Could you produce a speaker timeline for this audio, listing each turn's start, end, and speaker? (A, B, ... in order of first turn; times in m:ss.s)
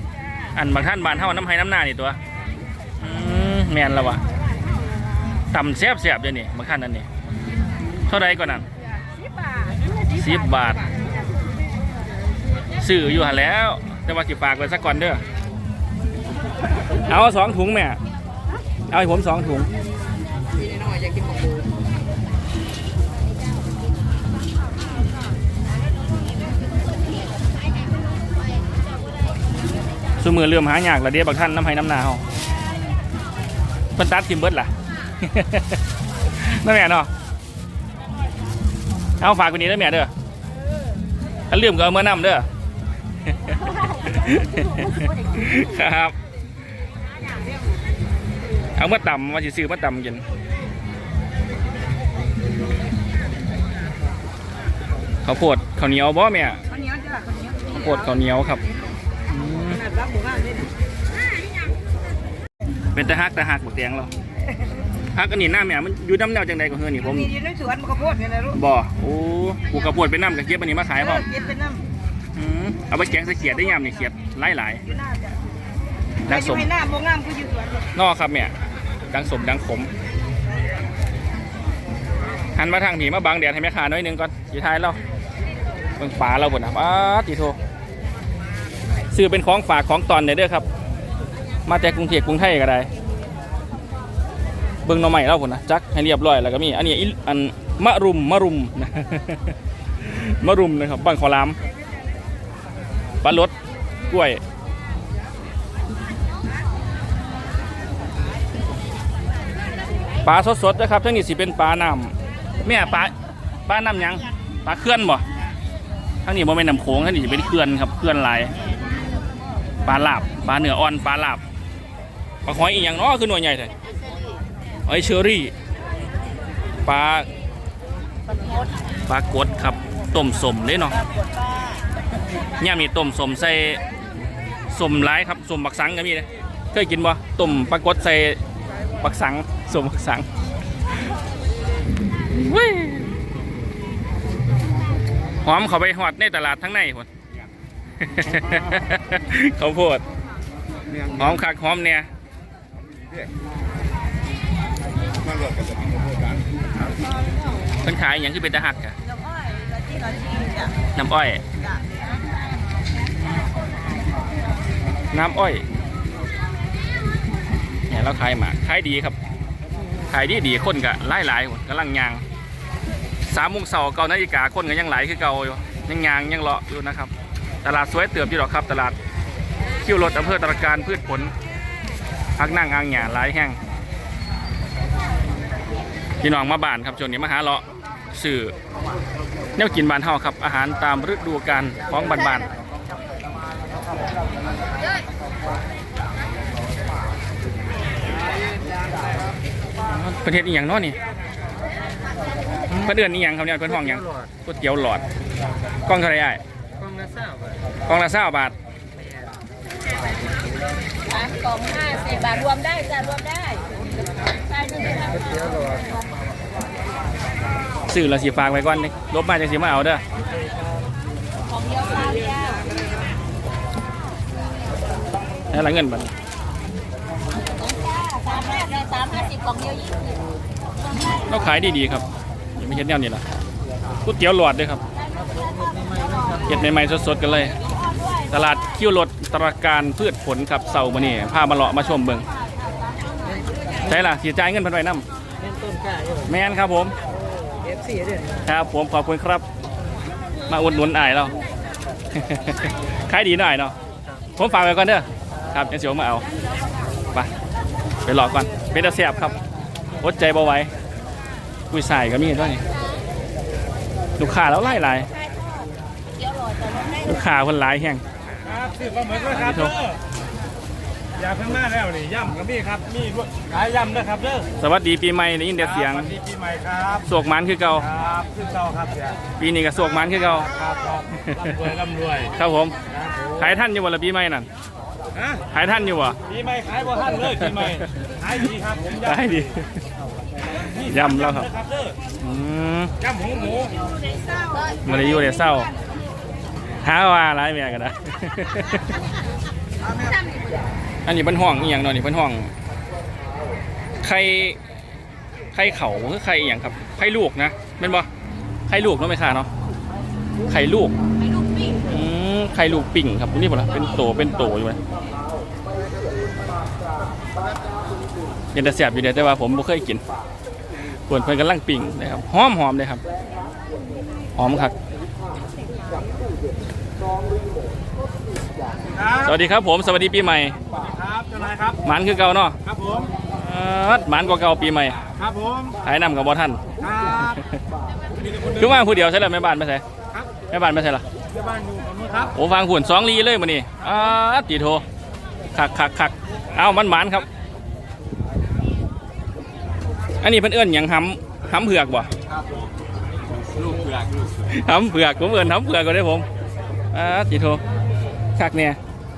0:00.5-0:02.2 A
0:03.0-0:04.2 A
0:05.5-0:07.1 A
0:08.1-0:08.7 A
0:10.1-0:10.8 A
0:12.8-0:15.2 A
0:17.0-0:18.0 A
0:18.9-0:19.7 A
0:20.6-0:21.6 B
0:30.2-0:32.2 A
0:33.9-0:37.1 A
0:39.2-0:40.1 A
0:41.5-0:42.4 A
0:43.4-0:46.2 A
0:48.8-0:50.2 A
0:55.2-0:56.6 A
0:56.7-0:57.5 C
0:57.7-0:58.6 A
0:59.3-0:59.8 A
0:59.8-1:00.7 C
1:02.9-1:04.1 A
1:05.1-1:07.4 A
1:07.3-1:08.5 C
1:07.6-1:08.4 B
1:08.5-1:11.3 A
1:11.3-1:11.7 B
1:11.3-1:11.8 C
1:12.4-1:14.8 A
1:14.9-1:15.4 C
1:16.2-1:16.7 A
1:16.7-1:17.9 C
1:16.8-1:17.6 B
1:17.9-1:18.5 A
1:19.1-1:19.9 A
1:22.6-1:25.0 A
1:26.0-1:27.6 A
1:29.1-1:30.7 A
1:31.7-1:32.9 A
1:34.8-1:41.6 A
1:43.2-1:43.5 A
1:44.1-1:44.4 A
1:50.2-1:52.1 A
1:52.6-1:53.1 A
1:53.7-1:55.2 A
1:56.2-1:58.5 A
1:59.9-2:01.4 A
2:02.4-2:03.7 A
2:04.9-2:05.5 A
2:06.8-2:07.3 A
2:09.1-2:11.0 A
2:12.6-2:13.8 A
2:14.7-2:18.4 A
2:19.0-2:20.3 A
2:22.3-2:23.1 A
2:25.4-2:27.1 A
2:28.0-2:30.0 A
2:31.1-2:32.1 A
2:37.8-2:39.0 A
2:39.3-2:40.7 B
2:40.9-2:41.4 A
2:45.1-2:45.6 A
2:47.9-2:49.2 A
2:50.1-2:52.2 A
2:53.2-2:57.1 A
2:57.6-2:59.0 A
2:59.8-3:01.3 A
3:02.4-3:03.6 A
3:06.2-3:08.6 A
3:09.6-3:12.5 A
3:19.8-3:21.0 A
3:22.7-3:25.0 A
3:25.9-3:26.4 A
3:27.9-3:28.6 A
3:31.1-3:33.7 B
3:34.4-3:35.8 B
3:37.9-3:40.0 A
3:41.5-3:42.9 B
3:45.5-3:46.1 A
3:47.7-3:50.2 B
3:51.3-3:52.1 A
3:52.6-3:53.2 A
3:54.0-3:54.8 A
3:55.1-3:56.4 B
3:56.4-3:57.6 A
3:57.9-3:58.2 B
3:58.3-4:02.2 A
4:03.8-4:05.0 A
4:06.2-4:07.0 A
4:08.4-4:09.4 A
4:10.5-4:11.4 A
4:12.1-4:13.8 A
4:14.4-4:16.2 A
4:18.0-4:19.4 A
4:20.0-4:20.7 A
4:21.7-4:22.6 A
4:24.2-4:25.1 A
4:25.2-4:25.6 B
4:26.2-4:27.1 B
4:27.0-4:28.0 A
4:28.4-4:30.0 D
4:29.3-4:29.8 A
4:31.2-4:34.5 D
4:34.6-4:36.2 A
4:36.0-4:37.0 D
4:37.0-4:37.9 A
4:37.9-4:39.2 D
4:39.4-4:40.5 A
4:40.5-4:42.3 D
4:41.2-4:41.6 A
4:42.4-4:42.8 A
4:42.9-4:43.3 D
4:43.3-4:44.5 A
4:45.2-4:45.4 D
4:45.5-4:46.2 A
4:46.3-4:49.2 D
4:49.0-4:49.8 A
4:50.7-4:52.0 D
4:50.8-4:51.5 A
4:52.2-4:52.9 A
4:53.0-4:53.8 D
4:53.8-4:54.8 B
4:54.8-4:55.7 A
4:56.8-4:59.0 A
4:59.9-5:00.6 B
5:01.0-5:02.5 A
5:04.0-5:04.6 A
5:05.5-5:08.1 A
5:08.7-5:09.5 A
5:10.5-5:10.9 A
5:11.2-5:11.8 B
5:11.9-5:14.8 A
5:18.5-5:20.0 A
5:21.1-5:23.0 A
5:24.4-5:24.7 A
5:28.9-5:29.2 D
5:29.2-5:30.6 A
5:30.8-5:31.8 D
5:31.8-5:32.6 A
5:32.7-5:33.1 D
5:33.3-5:35.0 A
5:35.2-5:35.8 D
5:35.8-5:37.6 A
5:36.8-5:37.4 D
5:38.5-5:39.8 A
5:40.5-5:41.0 A
5:41.4-5:42.3 D
5:42.3-5:44.8 A
5:45.5-5:47.3 A
5:50.2-5:52.1 A
5:54.5-5:56.2 A
5:56.9-5:57.6 A
5:58.4-5:58.8 A